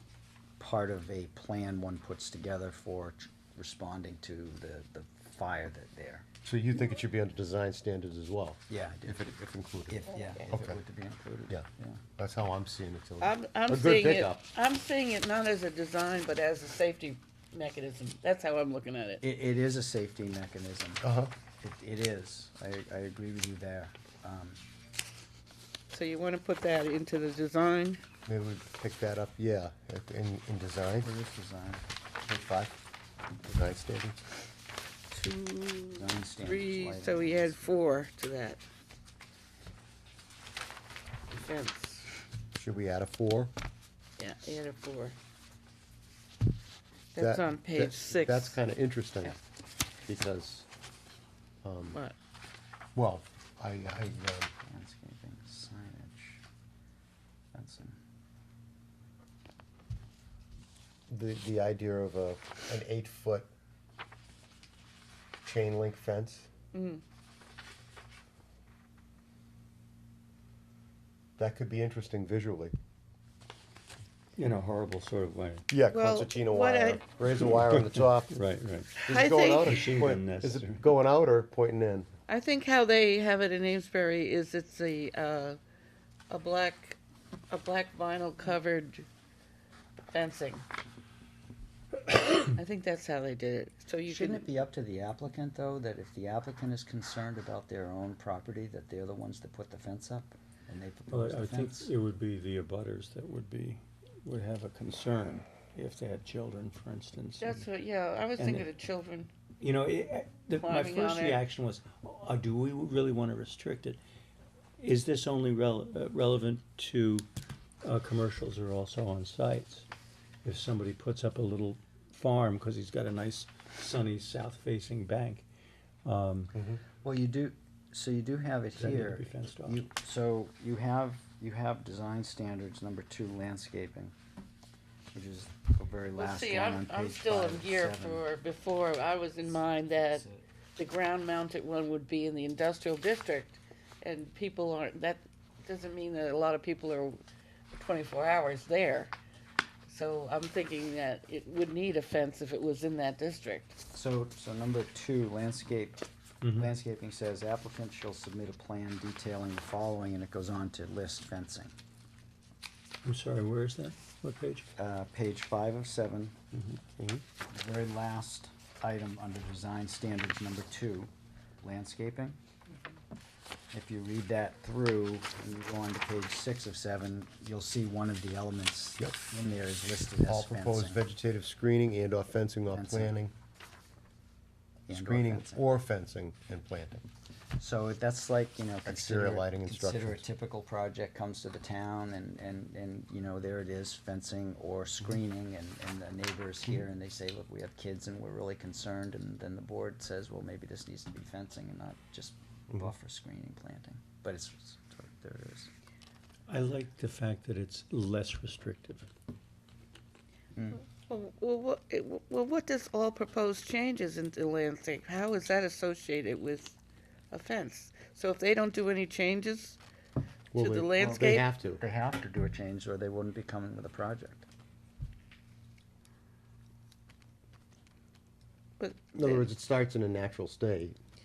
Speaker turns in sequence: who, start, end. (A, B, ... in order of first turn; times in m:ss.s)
0:00.6-0:06.3 A
0:06.4-0:10.8 B
0:08.7-0:09.3 A
0:09.9-0:12.0 A
0:11.5-0:14.5 B
0:13.2-0:19.2 C
0:19.2-0:21.0 A
0:21.0-0:21.3 B
0:21.6-0:24.6 A
0:25.9-0:28.0 C
0:28.3-0:31.1 B
0:31.0-0:31.8 A
0:32.2-0:32.8 B
0:33.4-0:34.2 B
0:35.1-0:38.6 C
0:36.0-0:37.7 A
0:41.4-0:42.1 C
0:42.6-0:43.5 B
0:44.2-0:45.2 C
0:47.1-0:48.6 C
0:47.2-0:49.4 B
0:50.1-0:50.7 B
0:51.6-0:52.0 B
0:53.0-0:54.5 B
0:54.6-0:56.4 A
0:57.5-0:58.0 A
1:01.1-1:03.5 B
1:05.4-1:06.5 B
1:06.7-1:07.0 C
1:11.4-1:12.8 B
1:14.4-1:15.7 D
1:15.7-1:18.4 B
1:15.9-1:17.0 C
1:18.3-1:19.0 D
1:19.0-1:19.8 C
1:19.1-1:22.1 B
1:19.6-1:20.8 D
1:22.3-1:25.6 C
1:26.3-1:27.0 C
1:27.5-1:29.1 C
1:30.1-1:30.6 C
1:32.4-1:34.5 C
1:34.1-1:41.9 A
1:41.1-1:47.7 D
1:47.4-1:49.3 C
1:48.4-1:48.7 D
1:49.6-1:54.0 D
1:50.6-1:51.4 C
1:54.8-1:57.3 D
1:57.8-1:59.9 D
2:00.4-2:05.4 D
2:06.0-2:06.5 D
2:06.5-2:06.8 B
2:07.0-2:14.1 A
2:08.8-2:09.8 D
2:15.1-2:18.2 A
2:16.2-2:20.3 C
2:20.8-2:27.2 C
2:27.7-2:29.1 C
2:29.9-2:33.8 C
2:33.9-2:41.7 A
2:36.4-2:36.7 D
2:43.0-2:44.7 D
2:44.8-2:46.4 A
2:46.5-2:46.8 D
2:47.0-2:47.2 B
2:47.5-2:52.4 A
2:53.7-3:01.0 A
3:00.2-3:03.3 B
3:02.7-3:03.1 A
3:04.9-3:05.6 A
3:04.9-3:07.0 B
3:07.6-3:25.7 A
3:08.9-3:10.2 B
3:26.5-3:29.1 D
3:30.6-3:30.8 A
3:31.0-3:36.8 C
3:37.3-3:39.8 C
3:40.5-3:41.8 B
3:40.5-3:41.4 C
3:41.0-3:44.5 A
3:48.8-3:49.5 C
3:49.2-3:51.0 B